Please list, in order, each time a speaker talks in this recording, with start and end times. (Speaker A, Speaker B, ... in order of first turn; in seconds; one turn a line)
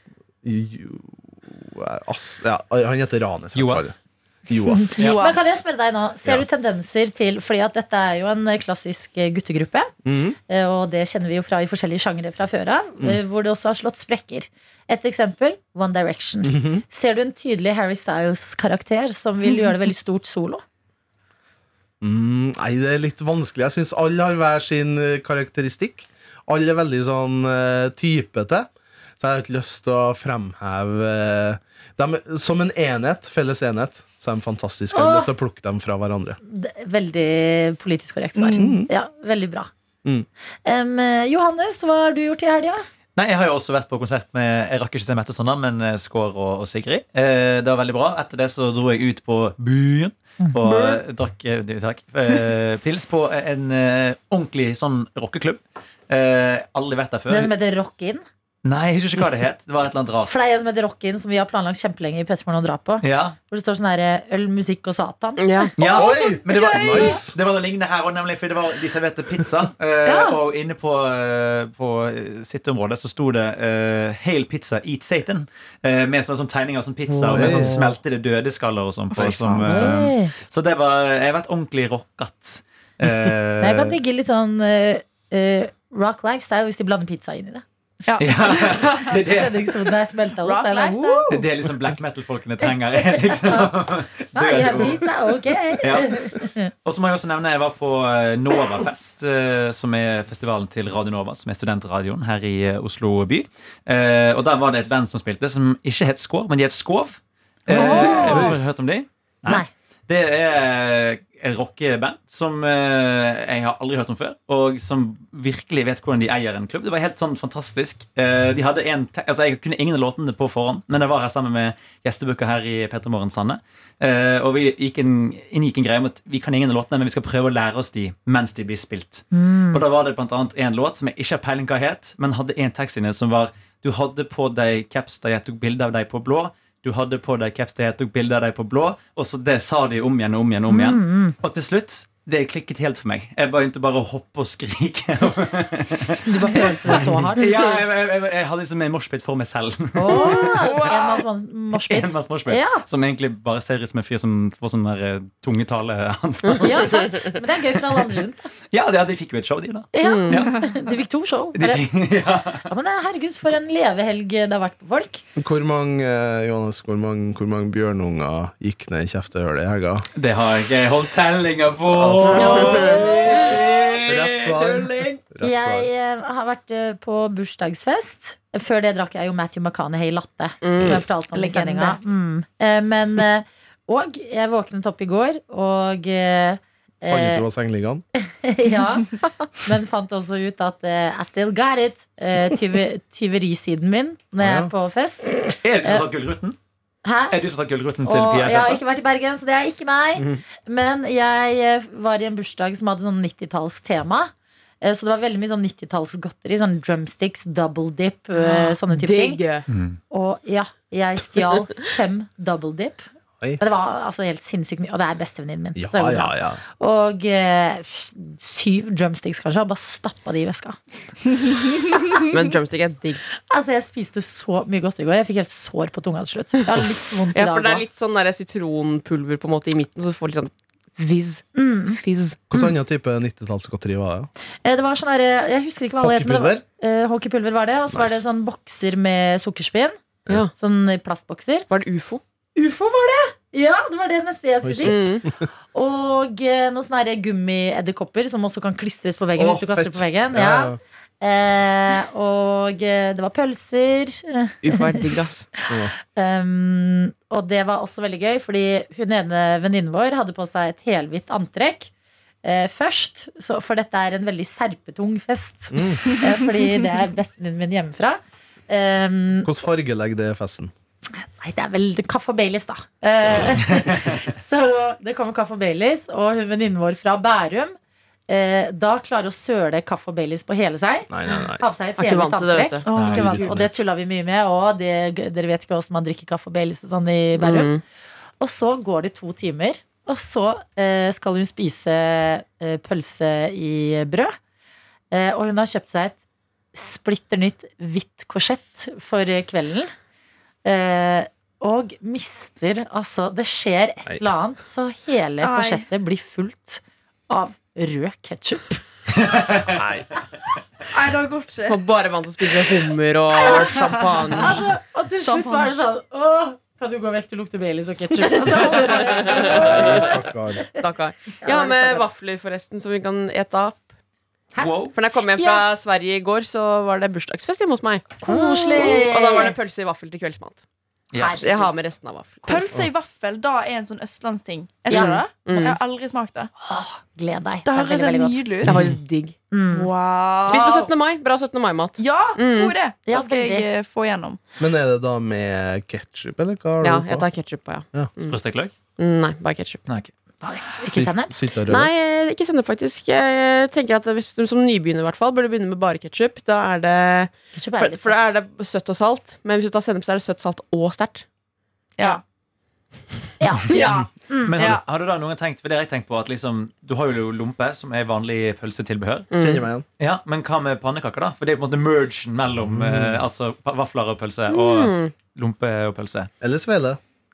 Speaker A: 0.4-5.1
Speaker B: 3.5-4.0
Speaker C: 4.7-9.9
Speaker D: 5.0-5.6
Speaker A: 10.1-10.4
Speaker C: 10.5-20.6
Speaker A: 16.4-16.8
Speaker A: 22.0-36.4
Speaker C: 34.9-35.3
Speaker C: 36.5-39.7
Speaker D: 38.4-38.8
Speaker A: 38.6-38.9
Speaker C: 40.6-42.9
Speaker B: 43.2-57.5
Speaker C: 50.4-51.0
Speaker C: 57.3-58.2
Speaker B: 58.6-60.3
Speaker C: 60.3-65.7
Speaker B: 63.0-63.4
Speaker E: 65.4-65.8
Speaker B: 65.8-84.0
Speaker D: 65.8-67.1
Speaker A: 65.9-67.4
Speaker C: 70.0-70.4
Speaker C: 77.1-77.8
Speaker A: 77.3-77.9
Speaker D: 79.1-79.6
Speaker A: 79.2-80.1
Speaker C: 79.7-80.3
Speaker C: 83.6-87.6
Speaker D: 88.1-89.2
Speaker B: 88.2-89.8
Speaker C: 89.1-91.4
Speaker D: 90.4-91.3
Speaker B: 91.3-95.1
Speaker C: 92.7-93.7
Speaker C: 94.3-96.7
Speaker B: 95.8-150.7
Speaker C: 107.7-108.5
Speaker D: 107.8-108.5
Speaker A: 107.9-108.5
Speaker C: 129.3-129.8
Speaker C: 140.7-141.4
Speaker C: 146.2-147.8
Speaker C: 149.9-152.8
Speaker D: 150.1-151.2
Speaker B: 151.9-157.1
Speaker C: 156.6-158.5
Speaker B: 158.7-160.5
Speaker C: 159.9-161.9
Speaker E: 160.0-160.5
Speaker B: 161.6-162.7
Speaker C: 162.7-165.2
Speaker A: 165.4-170.1
Speaker B: 170.2-175.2
Speaker A: 171.9-175.9
Speaker C: 172.3-173.3
Speaker E: 172.4-173.1
Speaker C: 175.4-187.4
Speaker E: 180.6-181.0
Speaker D: 181.3-182.0
Speaker A: 187.0-188.0
Speaker C: 188.2-196.1
Speaker A: 194.4-194.7
Speaker B: 195.6-196.6
Speaker C: 197.1-197.4
Speaker B: 197.3-198.8
Speaker C: 198.0-209.4
Speaker E: 208.4-209.7
Speaker B: 209.7-210.0
Speaker C: 210.1-213.1
Speaker C: 213.6-220.8
Speaker A: 215.8-216.6
Speaker C: 221.9-222.2
Speaker E: 222.2-223.2
Speaker C: 223.5-227.9
Speaker E: 227.3-232.4
Speaker C: 231.6-232.0
Speaker A: 232.5-234.3
Speaker C: 234.6-240.0
Speaker A: 236.0-236.6
Speaker A: 237.9-238.2
Speaker C: 240.6-241.7
Speaker E: 241.7-242.2
Speaker C: 242.6-245.2
Speaker A: 244.6-245.5
Speaker E: 244.8-245.2
Speaker C: 245.7-261.9
Speaker A: 249.4-250.8
Speaker E: 254.6-255.5
Speaker C: 262.4-269.5
Speaker A: 265.7-266.0
Speaker A: 269.4-270.7
Speaker C: 271.2-277.8
Speaker C: 278.3-287.7
Speaker A: 281.1-281.7
Speaker E: 282.0-283.4
Speaker D: 282.8-283.6
Speaker B: 282.9-283.7
Speaker E: 287.4-287.8
Speaker C: 288.4-294.4
Speaker C: 295.1-296.2
Speaker C: 296.7-299.9
Speaker C: 300.6-308.8
Speaker D: 305.4-305.9
Speaker B: 309.2-309.8
Speaker A: 309.7-310.1
Speaker D: 310.9-311.8
Speaker E: 311.7-314.6
Speaker D: 313.3-314.6
Speaker C: 313.4-313.7
Speaker C: 314.4-320.1
Speaker D: 315.3-315.8
Speaker E: 319.0-319.9
Speaker A: 319.5-320.6
Speaker E: 320.8-323.8
Speaker C: 321.4-322.1
Speaker B: 324.6-324.9
Speaker E: 324.9-330.6
Speaker C: 325.4-325.7
Speaker C: 328.2-329.6
Speaker B: 331.1-331.4
Speaker C: 331.2-331.7
Speaker E: 331.2-332.8
Speaker D: 332.4-336.5
Speaker E: 334.9-335.8
Speaker C: 334.9-335.8
Speaker C: 336.6-338.4
Speaker D: 337.7-338.9
Speaker E: 338.6-339.4
Speaker C: 339.5-339.9
Speaker D: 339.7-340.9
Speaker E: 340.5-342.8
Speaker D: 342.0-344.4
Speaker C: 343.1-343.7
Speaker A: 344.6-347.3
Speaker E: 346.8-348.4
Speaker B: 348.2-348.7
Speaker E: 349.0-349.8
Speaker C: 350.4-351.4
Speaker A: 350.9-351.9
Speaker E: 351.7-361.2
Speaker C: 357.6-358.2
Speaker C: 363.4-364.6
Speaker E: 363.7-364.0
Speaker D: 363.7-364.8
Speaker B: 364.4-369.3
Speaker E: 369.3-369.7
Speaker A: 369.4-369.9
Speaker B: 370.0-376.3
Speaker A: 372.7-373.2
Speaker E: 374.5-375.1
Speaker A: 376.4-377.0